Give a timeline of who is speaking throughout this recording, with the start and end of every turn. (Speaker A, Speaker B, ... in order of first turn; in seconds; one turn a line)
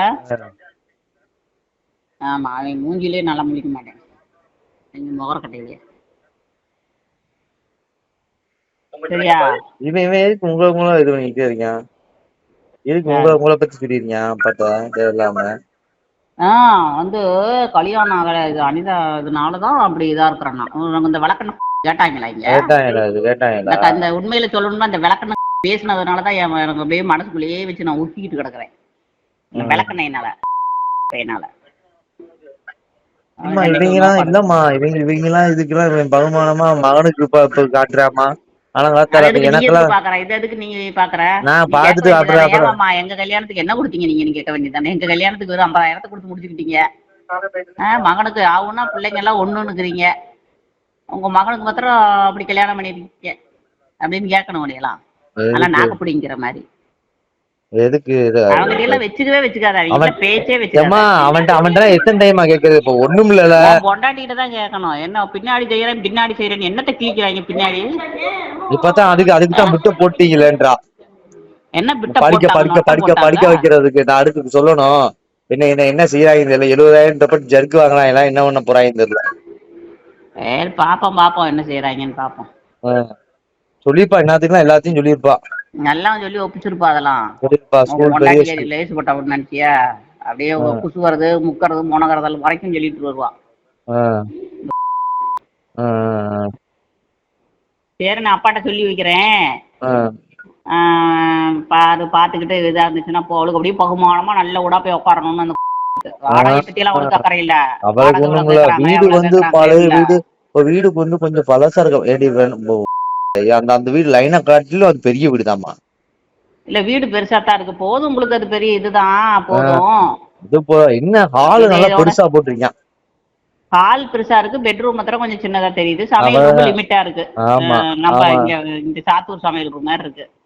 Speaker A: 2.3-4.0
Speaker A: 5.0-5.8
Speaker A: 9.1-9.5
Speaker B: 9.8-11.7
Speaker B: 12.9-15.5
Speaker A: 16.4-17.2
Speaker A: 17.7-22.6
Speaker B: 22.5-24.0
Speaker A: 23.7-28.7
Speaker A: 29.5-30.3
Speaker B: 29.6-29.9
Speaker A: 31.1-31.5
Speaker A: 33.4-34.4
Speaker B: 33.5-39.9
Speaker A: 39.1-46.8
Speaker B: 41.5-42.7
Speaker A: 47.8-50.1
Speaker A: 51.1-53.3
Speaker A: 54.0-55.0
Speaker B: 55.4-56.0
Speaker A: 55.5-56.6
Speaker B: 57.8-59.0
Speaker A: 58.5-61.2
Speaker B: 60.8-63.8
Speaker A: 63.6-67.8
Speaker B: 68.7-70.7
Speaker A: 71.8-73.7
Speaker B: 72.1-75.0
Speaker B: 75.5-79.2
Speaker A: 80.5-82.5
Speaker B: 83.8-85.4
Speaker A: 85.9-87.2
Speaker B: 87.4-88.7
Speaker A: 87.9-89.7
Speaker A: 90.3-93.3
Speaker B: 95.8-96.5
Speaker A: 98.0-99.3
Speaker B: 99.8-100.1
Speaker A: 100.8-110.1
Speaker B: 106.3-107.2
Speaker B: 107.9-112.8
Speaker B: 113.5-115.7
Speaker A: 116.7-120.0
Speaker B: 119.5-119.8
Speaker B: 120.5-122.7
Speaker A: 121.5-122.2
Speaker A: 123.8-130.2
Speaker B: 126.2-126.8
Speaker B: 127.5-128.5